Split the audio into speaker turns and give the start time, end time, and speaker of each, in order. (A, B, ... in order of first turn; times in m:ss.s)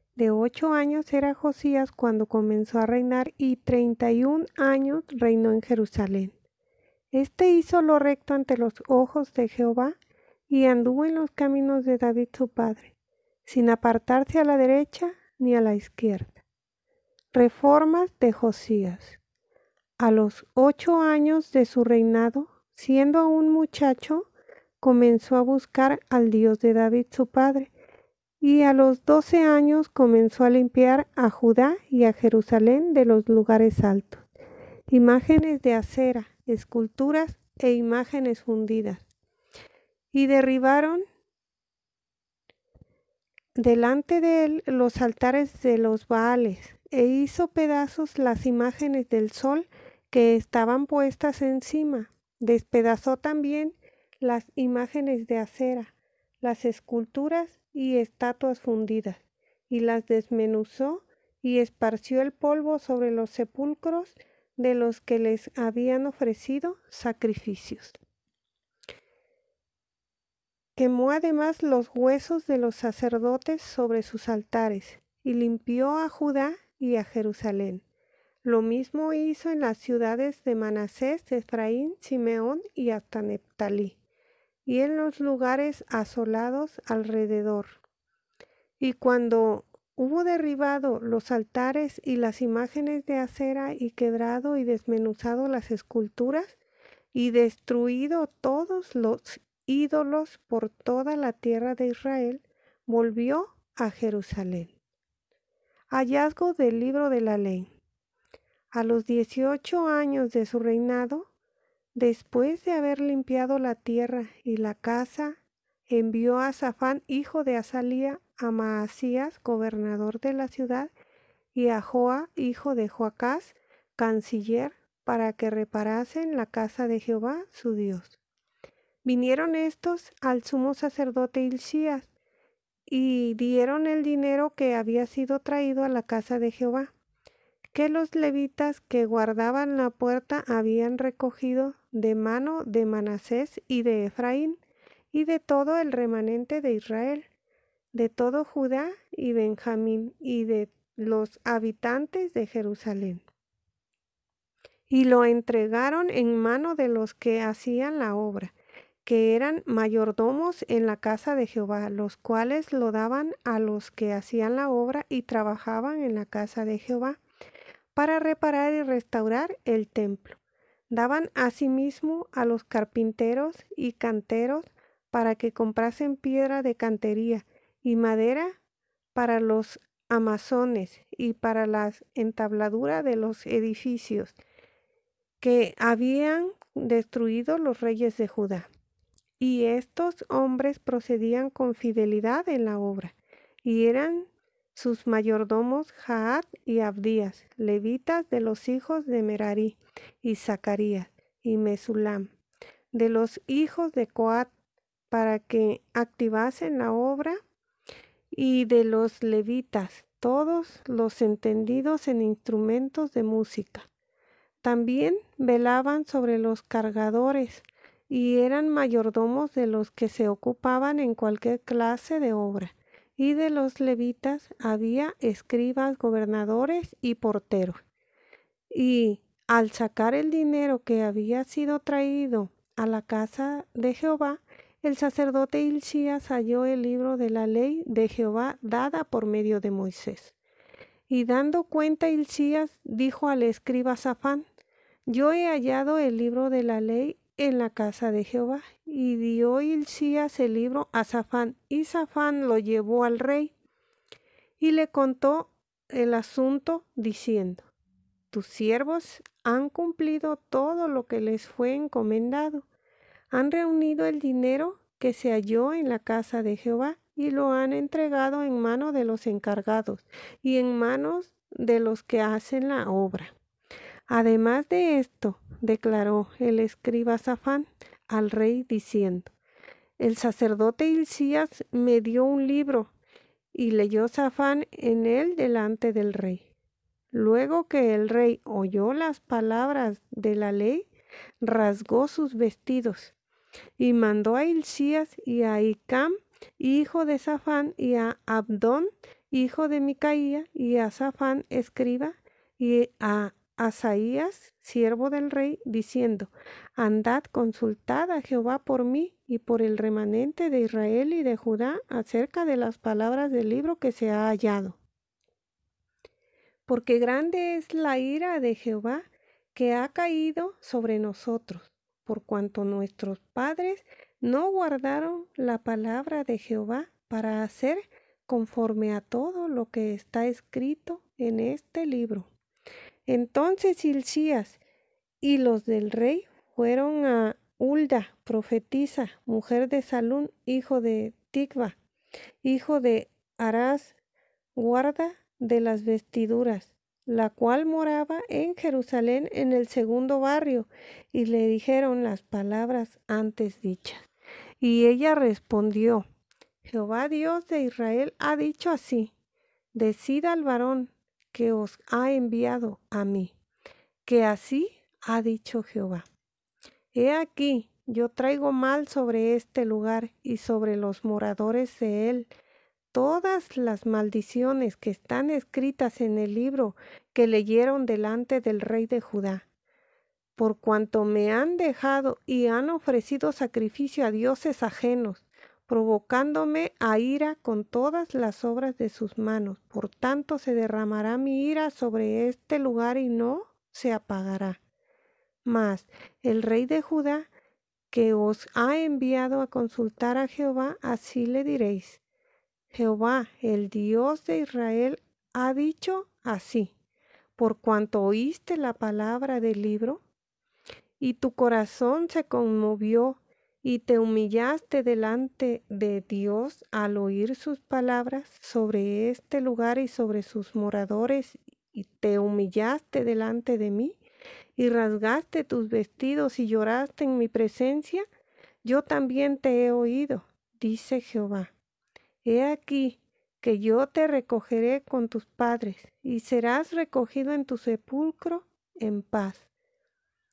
0:00.2-0:06.4 A
0:07.1-0:10.0 A
0:10.5-0:12.9 A
0:13.5-0:16.4 A
0:17.3-0:19.2 A
0:20.0-0:24.3 A
0:24.8-0:27.7 A
0:28.4-0:34.2 A
0:34.9-0:39.0 A
0:40.1-0:41.0 A
0:43.6-1:08.0 A
1:10.8-1:17.8 A
1:18.4-1:24.0 A
1:24.7-1:27.8 A
1:28.8-1:36.6 A
1:37.1-1:44.7 A
1:45.9-1:47.7 A
1:48.7-1:51.3 A
1:52.0-2:00.9 A
2:01.5-2:08.2 A
2:09.0-2:12.1 A
2:12.9-2:16.9 A
2:17.7-2:24.6 A
2:25.1-2:27.3 A
2:27.9-2:33.3 A
2:34.9-2:38.5 A
2:39.0-2:47.2 A
2:48.0-2:50.4 A
2:50.9-2:58.6 A
2:59.2-3:04.4 A
3:05.4-3:08.7 A
3:09.4-3:22.3 A
3:22.9-3:24.5 A
3:25.1-3:27.4 A
3:28.3-3:33.9 A
3:34.6-3:47.8 A
3:48.7-4:00.4 A
4:01.1-4:04.5 A
4:05.1-4:13.5 A
4:14.6-4:17.7 A
4:18.3-4:22.7 A
4:23.3-4:33.3 A
4:34.1-4:39.3 A
4:40.0-4:42.9 A
4:43.5-4:46.5 A
4:47.1-4:50.9 A
4:51.4-4:53.2 A
4:53.8-5:14.8 A
5:16.7-5:32.3 A
5:33.1-5:34.6 A
5:35.2-5:41.8 A
5:42.4-5:44.0 A
5:44.6-5:54.1 A
5:54.6-5:56.0 A
5:56.6-5:59.1 A
5:59.7-6:03.3 A
6:04.1-6:06.0 A
6:06.9-6:12.3 A
6:12.9-6:19.5 A
6:20.4-6:34.6 A
6:35.4-6:37.3 A
6:37.9-6:42.0 A
6:42.7-6:46.7 A
6:47.4-6:50.0 A
6:51.0-7:04.0 A
7:04.6-7:08.0 A
7:08.6-7:11.5 A
7:12.2-7:19.5 A